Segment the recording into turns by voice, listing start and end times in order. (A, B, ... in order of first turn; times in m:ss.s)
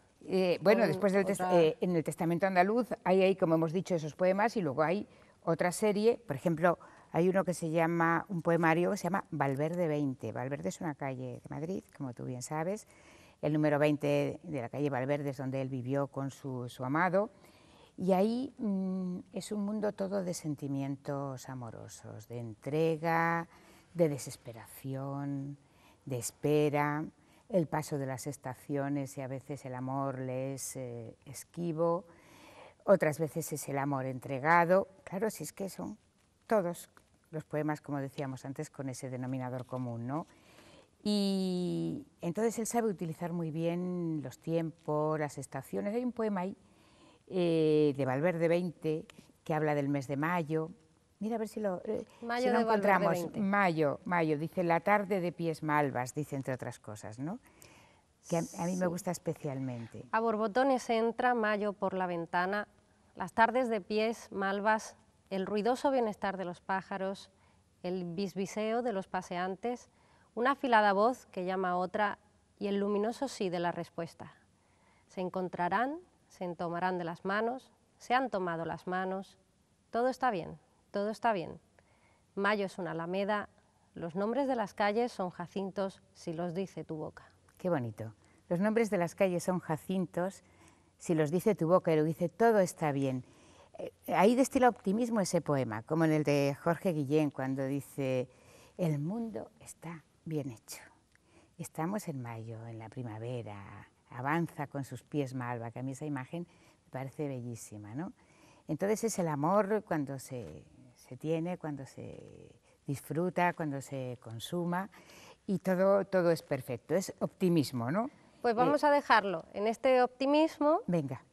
0:00.2-0:12.9 A
0:00.6-0:01.7 B
0:13.4-0:17.3 A
0:18.0-0:32.1 A
0:32.8-0:40.3 A
0:41.0-0:46.6 A
0:47.3-0:57.4 A
0:52.2-0:53.4 B
0:58.2-0:59.0 B
0:58.3-1:00.1 A
1:00.1-1:07.3 B
1:07.8-1:14.4 B
1:15.1-1:19.4 B
1:19.9-1:21.6 B
1:22.4-1:27.3 B
1:27.6-1:30.4 A
1:31.0-1:40.9 A
1:41.6-1:48.1 A
1:48.7-1:54.9 A
1:55.5-1:58.8 A
1:58.4-2:00.9 B
2:00.9-2:01.2 A